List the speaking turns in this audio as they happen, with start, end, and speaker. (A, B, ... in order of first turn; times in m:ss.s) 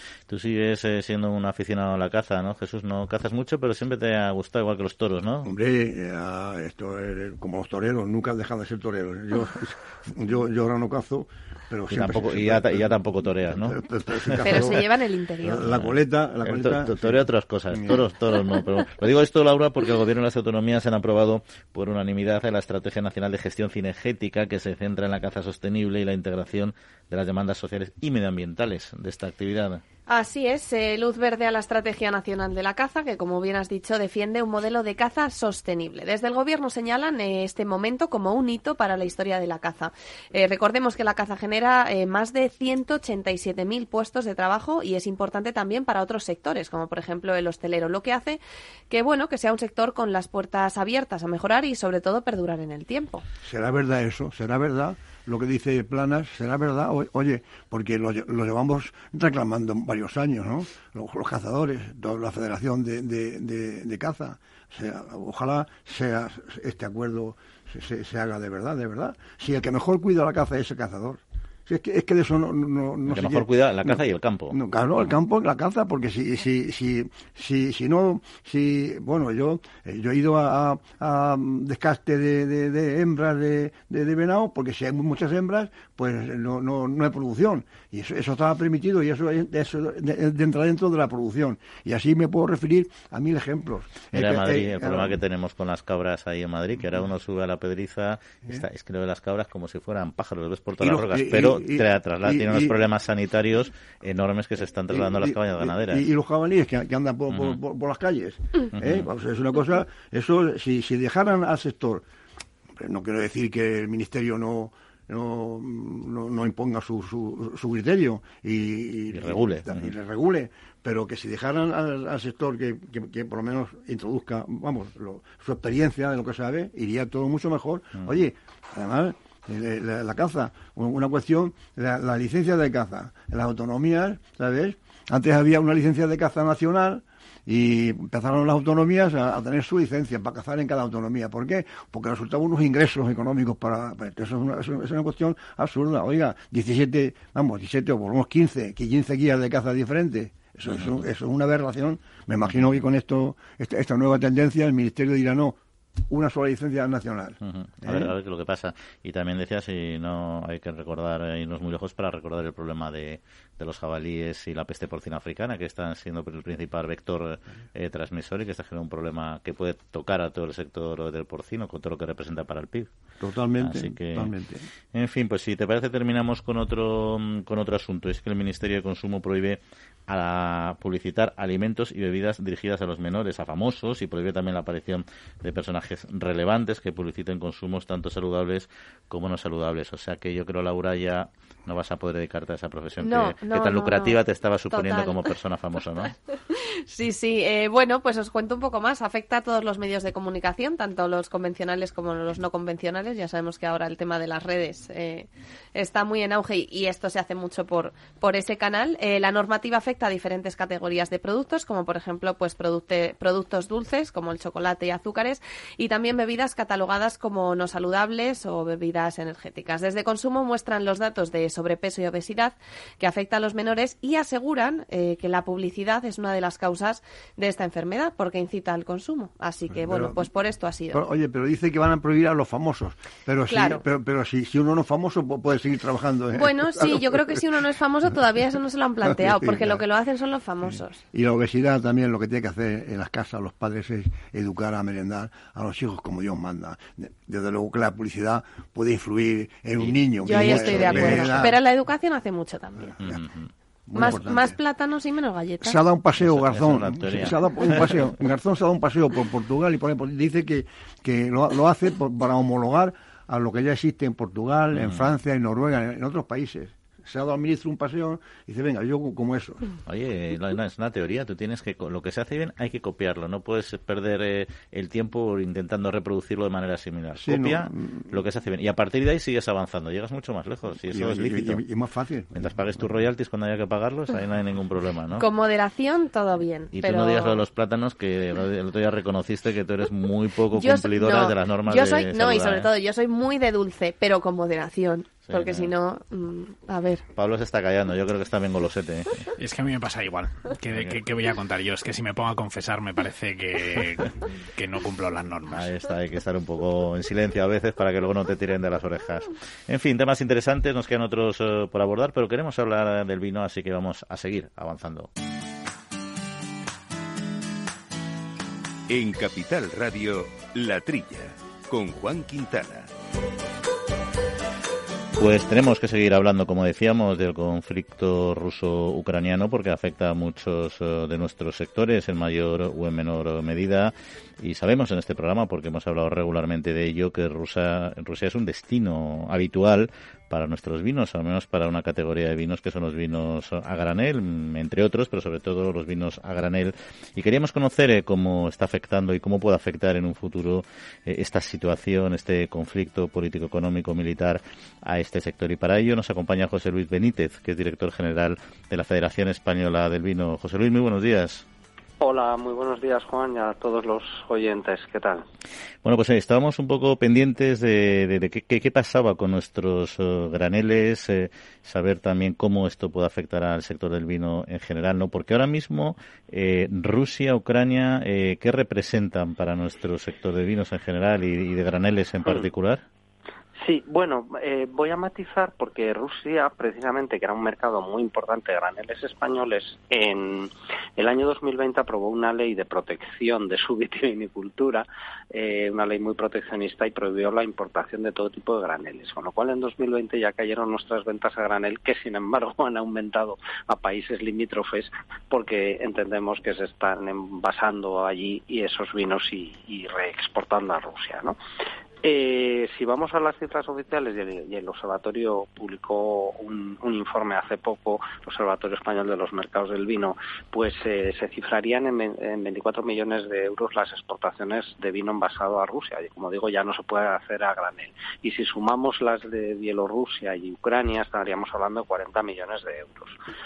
0:00.3-0:05.5 A
0:05.4-0:14.8 B
0:11.9-0:14.8 A
0:14.4-0:15.6 C
0:15.4-0:18.0 B
0:15.6-0:29.8 A
0:30.1-0:53.2 C
0:53.4-1:14.0 B
1:13.1-1:14.6 A
1:14.5-1:35.2 B
1:34.1-1:46.0 A
1:40.8-1:42.8 B
1:44.9-1:52.0 B
1:47.3-1:47.6 A
1:48.8-1:49.1 A
1:52.8-2:35.6 B
1:59.1-1:59.9 A
2:30.7-2:31.0 A
2:36.1-2:38.1 B
2:37.4-2:52.9 A
2:53.2-2:54.7 B
2:53.6-2:54.3 A
2:54.9-3:16.1 A
3:13.0-3:14.2 C
3:14.7-3:15.3 C
3:16.5-3:51.0 C
3:49.8-3:50.2 B
3:50.9-3:57.4 B
3:53.5-3:53.8 C
3:56.3-4:01.0 C
3:59.1-3:59.8 B
4:01.1-4:11.5 B
4:09.8-4:11.5 A
4:10.2-4:13.0 C
4:12.9-4:13.2 B
4:13.0-4:13.5 A
4:13.9-4:14.6 B
4:13.9-4:15.8 C
4:15.6-4:29.6 B
4:16.2-4:18.1 A
4:24.7-4:25.1 A
4:29.8-4:41.6 A
4:37.2-4:38.2 B
4:40.9-4:42.5 B
4:42.3-4:45.2 A
4:45.2-4:47.4 C
4:46.7-4:52.7 A
4:50.5-4:57.0 C
4:55.3-4:55.7 A
4:57.2-4:59.3 A
4:59.4-5:05.7 D
5:00.7-5:01.0 A
5:05.5-5:15.1 A
5:18.9-5:22.9 E
5:25.2-6:01.4 A
6:02.0-6:05.2 F
6:05.8-6:22.8 A
6:23.6-6:51.4 F
6:52.0-7:13.2 F